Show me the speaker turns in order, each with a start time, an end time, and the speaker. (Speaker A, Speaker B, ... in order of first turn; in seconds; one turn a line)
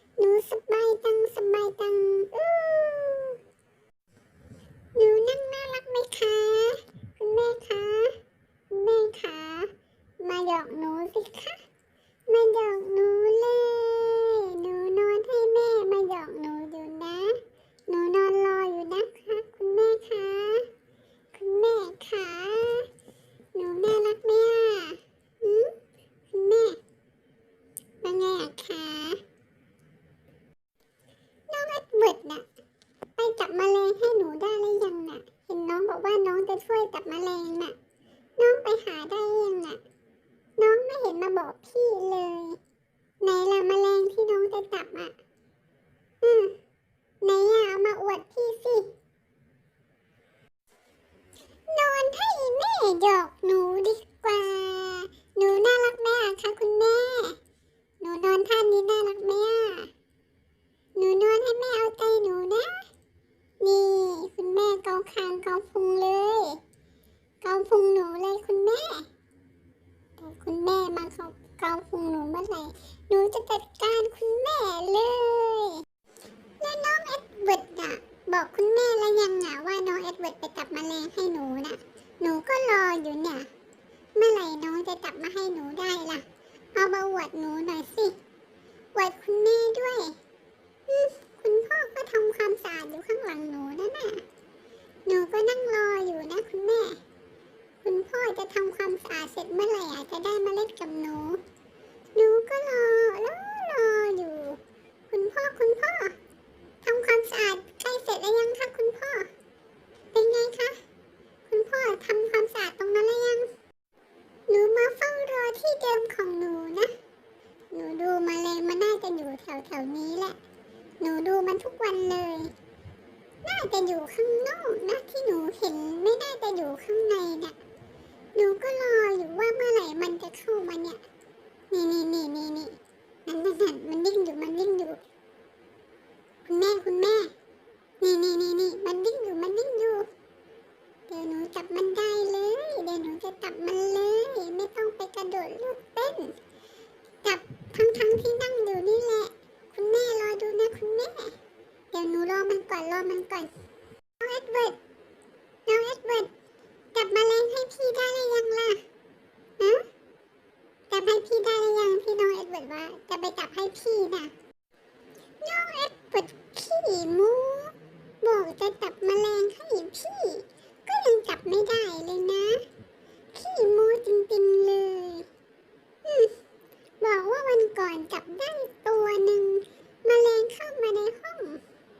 Speaker A: 0.2-3.4
Speaker A: 4.9-8.1
Speaker A: 8.7-9.7
Speaker A: 10.2-11.6
Speaker A: 12.3-20.7
Speaker A: 21.3-22.9
Speaker A: 23.5-25.7
Speaker A: 26.3-26.8
Speaker A: 28.0-29.2
Speaker A: 31.5-32.4
Speaker A: 33.2-37.7
Speaker A: 38.4-39.8
Speaker A: 40.6-42.6
Speaker A: 43.2-45.1
Speaker A: 46.2-46.5
Speaker A: 47.2-48.9
Speaker A: 51.7-57.4
Speaker A: 58.0-59.9
Speaker A: 61.0-62.8
Speaker A: 63.6-66.6
Speaker A: 67.4-69.1
Speaker A: 70.2-75.8
Speaker A: 76.6-83.5
Speaker A: 84.1-86.2
Speaker A: 86.7-88.2
Speaker A: 88.9-90.1
Speaker A: 90.9-94.2
Speaker A: 95.0-97.0
Speaker A: 97.8-101.4
Speaker A: 102.1-104.6
Speaker A: 105.1-106.1
Speaker A: 106.8-109.3
Speaker A: 110.1-110.8
Speaker A: 111.5-113.5
Speaker A: 114.5-116.9
Speaker A: 117.7-120.4
Speaker A: 121.0-122.5
Speaker A: 123.4-127.6
Speaker A: 128.3-131.0
Speaker A: 131.7-135.0
Speaker A: 136.4-137.3
Speaker A: 138.0-140.1
Speaker A: 141.1-146.3
Speaker A: 147.2-151.3
Speaker A: 151.9-153.5
Speaker A: 154.2-154.8
Speaker A: 155.7-156.3
Speaker A: 156.9-158.8
Speaker A: 160.9-164.3
Speaker A: 165.4-172.6
Speaker A: 173.3-175.2
Speaker A: 176.0-176.3
Speaker A: 177.0-181.6